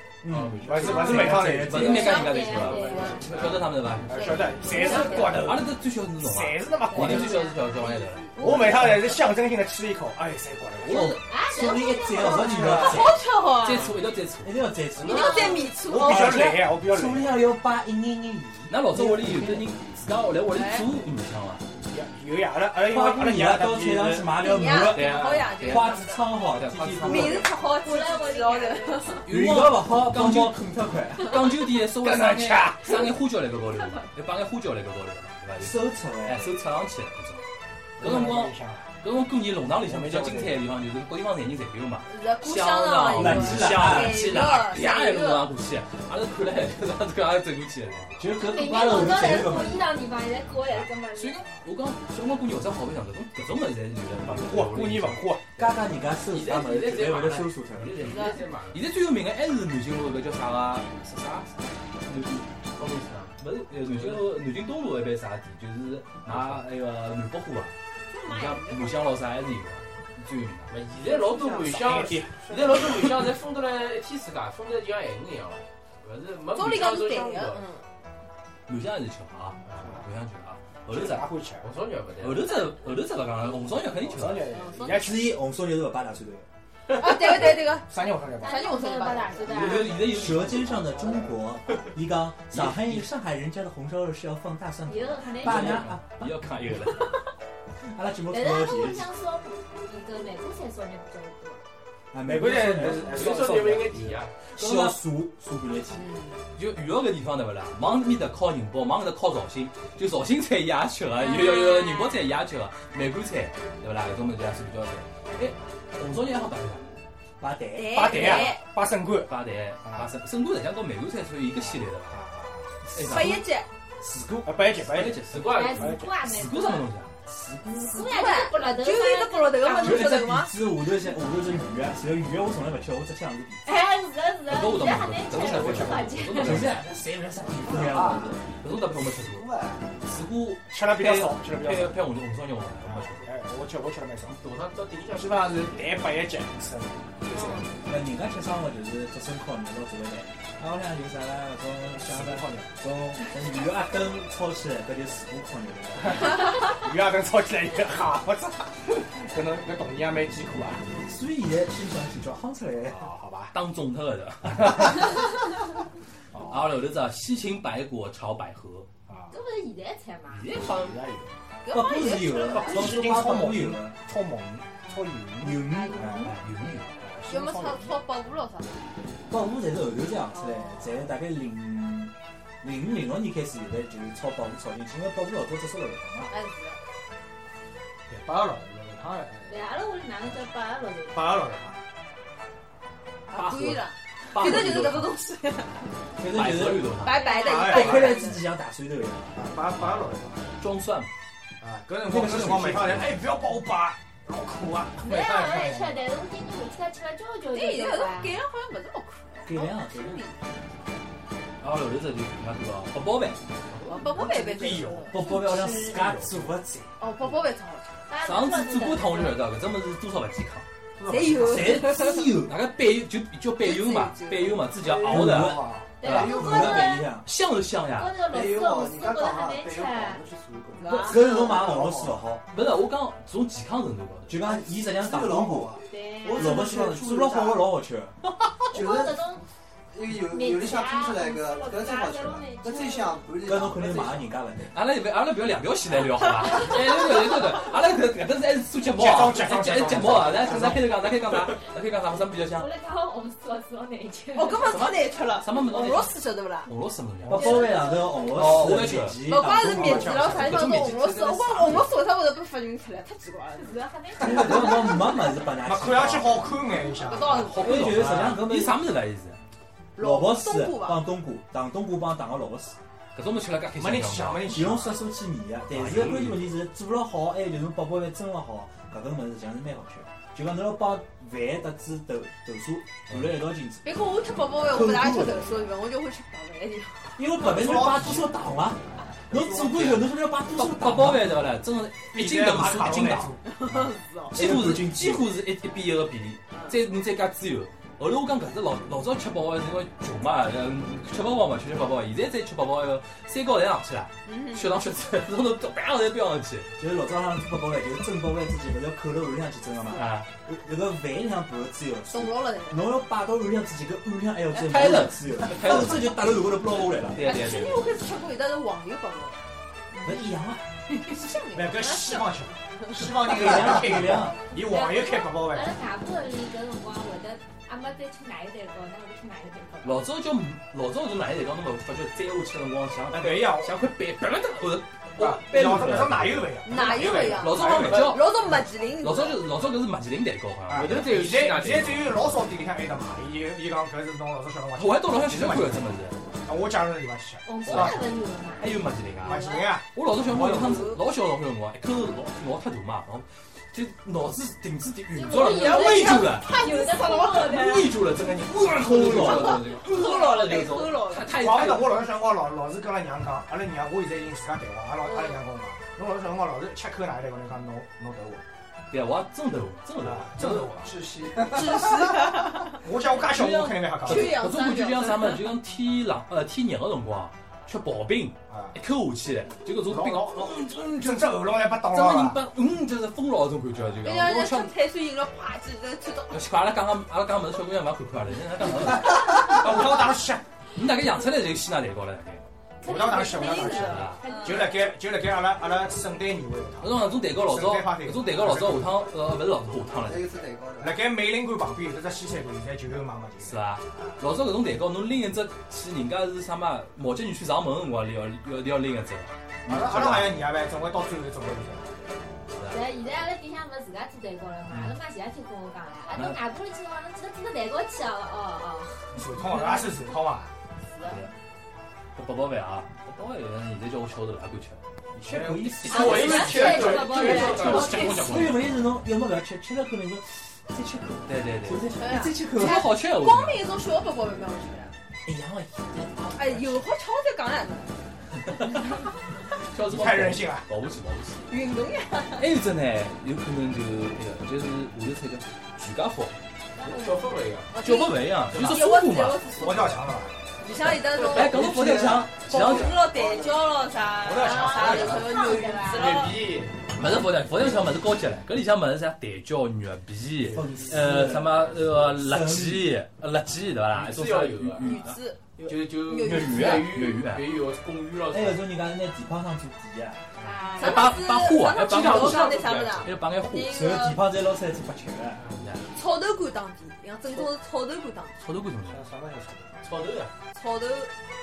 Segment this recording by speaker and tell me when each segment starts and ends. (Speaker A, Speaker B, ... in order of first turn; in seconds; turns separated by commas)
Speaker A: 0.2-2.2, Speaker B: 0.3-0.8, Speaker C: 0.6-2.1, Speaker D: 0.7-8.9, Speaker E: 0.8-3.3, Speaker F: 1.8-3.4, Speaker B: 2.6-3.6, Speaker C: 3.2-7.5, Speaker F: 4.1-5.5, Speaker E: 6.9-8.1, Speaker F: 8.3-8.8, Speaker C: 8.4-11.2, Speaker A: 8.4-9.2, Speaker D: 10.8-11.2, Speaker A: 10.9-13.2, Speaker E: 11.1-12.9, Speaker G: 12.2-12.9, Speaker F: 12.4-14.0, Speaker D: 13.6-14.6, Speaker A: 14.4-19.7, Speaker B: 15.0-15.7, Speaker F: 15.0-16.6, Speaker E: 15.2-15.5, Speaker C: 15.9-17.4, Speaker D: 18.7-21.6, Speaker F: 20.5-20.9, Speaker C: 21.8-24.3, Speaker A: 22.8-27.4, Speaker F: 24.3-26.3, Speaker D: 24.9-27.5, Speaker F: 27.0-29.2, Speaker E: 27.8-29.2, Speaker D: 29.3-30.6, Speaker A: 29.3-31.5, Speaker D: 31.2-37.4, Speaker C: 32.0-33.1, Speaker E: 33.6-34.1, Speaker A: 35.6-36.6, Speaker C: 38.0-38.9, Speaker D: 38.0-48.2, Speaker C: 39.7-40.6, Speaker F: 42.1-45.5, Speaker A: 43.1-44.2, Speaker C: 47.9-48.2, Speaker A: 48.2-49.9, Speaker E: 48.3-51.6, Speaker D: 50.7-55.7, Speaker C: 54.2-55.5, Speaker A: 55.6-58.1, Speaker B: 56.3-58.9, Speaker F: 58.0-58.4, Speaker D: 58.6-62.5, Speaker B: 62.7-64.3, Speaker D: 63.4-70.8, Speaker B: 66.3-66.7, Speaker F: 68.1-69.1, Speaker B: 70.7-77.7, Speaker G: 71.3-71.7, Speaker C: 71.6-72.4, Speaker G: 72.3-72.8, Speaker F: 76.5-77.8, Speaker D: 78.7-81.3, Speaker B: 79.7-80.0, Speaker C: 79.8-80.1, Speaker C: 80.9-81.7, Speaker B: 81.6-82.6, Speaker D: 82.2-84.5, Speaker C: 83.9-85.4, Speaker F: 84.5-85.1, Speaker A: 84.9-86.5, Speaker F: 86.9-87.9, Speaker C: 87.3-88.7, Speaker E: 88.4-90.0, Speaker F: 88.4-89.8, Speaker A: 89.5-96.4, Speaker D: 89.5-90.8, Speaker C: 90.8-91.3, Speaker D: 92.5-93.1, Speaker E: 94.8-96.0, Speaker D: 95.4-97.1, Speaker A: 97.8-99.1, Speaker E: 98.3-101.6, Speaker A: 102.1-103.8, Speaker C: 102.2-104.2, Speaker B: 103.1-104.4, Speaker A: 104.5-106.1, Speaker D: 104.6-105.0, Speaker F: 106.0-106.4, Speaker D: 106.6-117.0, Speaker F: 111.2-112.1, Speaker A: 117.4-118.4, Speaker F: 117.7-118.6, Speaker C: 117.9-120.2, Speaker D: 119.3-122.2, Speaker C: 121.6-122.7, Speaker A: 122.9-123.4, Speaker D: 122.9-123.4, Speaker F: 123.0-123.7, Speaker A: 124.0-124.5, Speaker C: 124.4-126.1, Speaker D: 124.8-127.1, Speaker B: 125.3-125.9, Speaker E: 125.5-126.9, Speaker A: 127.3-128.1, Speaker F: 127.8-130.5, Speaker E: 127.9-130.2, Speaker A: 129.8-133.7, Speaker E: 133.7-136.7, Speaker D: 134.5-136.8, Speaker C: 135.3-136.2, Speaker A: 136.3-138.4, Speaker G: 137.7-139.9, Speaker D: 138.5-139.5, Speaker D: 140.0-143.3, Speaker C: 140.7-142.0, Speaker C: 142.8-144.4, Speaker B: 144.3-146.0, Speaker C: 145.2-147.7, Speaker F: 147.3-147.7, Speaker A: 147.9-156.4, Speaker C: 152.0-152.7, Speaker C: 156.0-160.8, Speaker A: 161.0-163.1, Speaker C: 162.8-163.5, Speaker D: 163.5-165.4, Speaker C: 166.3-166.7, Speaker D: 166.4-168.9, Speaker C: 169.1-169.3, Speaker E: 169.3-170.5, Speaker B: 170.4-171.0, Speaker C: 170.6-171.3, Speaker F: 171.6-173.0, Speaker A: 171.7-174.0, Speaker C: 172.5-176.4, Speaker A: 175.4-176.4, Speaker E: 175.8-177.1, Speaker D: 176.2-176.9, Speaker C: 177.0-177.9, Speaker F: 177.2-178.9, Speaker A: 179.3-186.3, Speaker F: 180.3-181.1, Speaker F: 186.3-186.8, Speaker C: 188.1-189.7, Speaker E: 189.5-191.6, Speaker C: 191.1-191.8, Speaker F: 193.3-195.9, Speaker D: 193.3-193.8, Speaker D: 194.3-195.1, Speaker A: 194.3-195.0, Speaker A: 196.2-197.0, Speaker D: 196.3-197.4, Speaker F: 196.9-198.4, Speaker E: 197.2-197.6, Speaker C: 197.3-198.2, Speaker A: 197.6-199.4, Speaker C: 199.3-200.5, Speaker D: 199.8-201.1, Speaker C: 201.6-206.0, Speaker A: 202.0-203.2, Speaker E: 205.0-208.4, Speaker F: 207.5-210.4, Speaker A: 209.4-210.3, Speaker D: 211.6-213.4, Speaker F: 213.9-215.2, Speaker C: 214.1-215.2, Speaker A: 214.5-216.9, Speaker F: 217.0-218.0, Speaker E: 218.1-219.4, Speaker D: 218.2-220.7, Speaker F: 221.1-222.3, Speaker A: 221.5-222.5, Speaker D: 221.5-226.5, Speaker F: 223.6-224.7, Speaker G: 224.8-226.9, Speaker A: 225.1-227.3, Speaker E: 226.0-227.1, Speaker D: 227.2-228.2, Speaker E: 227.9-230.2, Speaker G: 228.3-232.2, Speaker F: 230.8-231.7, Speaker A: 230.8-232.4, Speaker D: 232.5-234.4, Speaker A: 234.3-238.2, Speaker G: 234.4-237.6, Speaker E: 235.8-236.6, Speaker G: 238.7-239.3, Speaker E: 238.7-239.4, Speaker G: 239.9-244.3, Speaker E: 240.1-243.3, Speaker A: 243.4-244.8, Speaker D: 244.7-252.7, Speaker C: 248.9-251.1, Speaker E: 252.5-254.8, Speaker F: 254.3-256.7, Speaker D: 254.7-261.9, Speaker A: 257.3-260.6, Speaker E: 257.3-258.3, Speaker F: 259.2-263.8, Speaker E: 263.6-265.4, Speaker A: 264.2-266.6, Speaker C: 265.6-267.5, Speaker F: 267.0-267.8, Speaker D: 267.4-269.4, Speaker A: 267.6-268.8, Speaker F: 270.0-271.0, Speaker A: 270.0-272.8, Speaker D: 273.1-274.7, Speaker C: 273.8-275.0, Speaker A: 274.5-284.0, Speaker D: 275.7-276.5, Speaker D: 283.1-283.4, Speaker F: 283.8-287.1, Speaker A: 284.6-285.6, Speaker A: 287.2-291.4, Speaker C: 287.4-288.4, Speaker D: 289.4-293.4, Speaker C: 292.1-293.4, Speaker F: 293.5-294.4, Speaker A: 294.3-295.3, Speaker D: 294.3-306.7, Speaker F: 304.3-304.8, Speaker A: 306.8-317.2, Speaker D: 309.9-310.3, Speaker F: 312.1-313.0, Speaker D: 314.6-316.2, Speaker F: 314.6-315.0, Speaker D: 317.1-317.9, Speaker F: 317.2-319.4, Speaker A: 320.0-320.7, Speaker F: 321.0-323.3, Speaker C: 321.5-325.8, Speaker A: 323.2-324.4, Speaker E: 324.5-330.1, Speaker D: 329.8-342.1, Speaker C: 333.1-333.7, Speaker C: 335.2-338.1, Speaker F: 336.6-339.4, Speaker C: 340.7-348.1, Speaker B: 340.7-341.8, Speaker D: 344.8-346.2, Speaker E: 347.4-349.8, Speaker D: 347.7-348.1, Speaker D: 348.6-356.6, Speaker C: 349.2-350.9, Speaker F: 350.4-351.0, Speaker E: 355.1-358.0, Speaker F: 355.4-357.5, Speaker D: 357.4-362.0, Speaker C: 358.2-359.3, Speaker A: 358.6-359.6, Speaker F: 359.1-361.3, Speaker C: 361.3-368.4, Speaker F: 365.0-365.4, Speaker D: 368.9-370.8, Speaker C: 370.0-372.1, Speaker G: 370.8-372.0, Speaker F: 371.5-372.8, Speaker C: 372.8-374.4, Speaker D: 373.1-384.7, Speaker F: 374.0-375.5, Speaker C: 378.5-378.8, Speaker C: 379.9-382.4, Speaker F: 384.0-386.4, Speaker D: 386.3-389.9, Speaker C: 389.4-390.4, Speaker D: 390.7-392.5, Speaker E: 392.8-394.9, Speaker C: 392.8-399.0, Speaker F: 393.2-394.1, Speaker D: 393.7-394.2, Speaker D: 396.8-400.3, Speaker G: 400.0-401.0, Speaker C: 400.8-404.1, Speaker D: 403.4-410.5, Speaker C: 409.7-412.2, Speaker D: 412.5-412.9, Speaker E: 412.6-420.0, Speaker D: 414.7-415.0, Speaker D: 416.1-416.4, Speaker C: 419.1-420.5, Speaker E: 420.9-421.3, Speaker D: 421.1-421.3, Speaker D: 422.1-424.8, Speaker C: 425.1-428.4, Speaker A: 425.2-426.8, Speaker B: 425.8-428.6, Speaker E: 425.9-428.3, Speaker F: 426.2-428.0, Speaker A: 427.9-432.9, Speaker D: 431.3-433.7, Speaker F: 431.9-434.9, Speaker A: 435.3-436.7, Speaker D: 435.9-436.8, Speaker F: 436.4-437.9, Speaker D: 438.5-438.9, Speaker D: 439.6-441.5, Speaker C: 439.8-440.7, Speaker F: 441.5-442.5, Speaker D: 442.4-446.3, Speaker E: 446.7-447.5, Speaker B: 446.8-447.7, Speaker F: 447.7-450.0, Speaker D: 447.8-449.5, Speaker B: 448.5-448.8, Speaker C: 449.6-450.4, Speaker F: 450.6-456.4, Speaker B: 451.0-453.5, Speaker D: 451.2-453.1, Speaker C: 454.2-455.6, Speaker E: 454.4-456.3, Speaker B: 455.9-456.8, Speaker D: 456.9-465.2, Speaker A: 460.5-462.9, Speaker B: 463.9-464.9, Speaker F: 464.8-466.9, Speaker B: 465.6-468.7, Speaker D: 466.2-467.5, Speaker A: 468.3-470.2, Speaker E: 470.4-471.1, Speaker F: 470.7-474.2, Speaker D: 470.8-473.9, Speaker B: 471.9-473.0, Speaker A: 473.7-475.4, Speaker B: 475.4-475.8, Speaker F: 475.9-478.4, Speaker D: 478.4-479.0, Speaker C: 478.9-479.7, Speaker B: 479.8-480.3, Speaker F: 480.5-481.1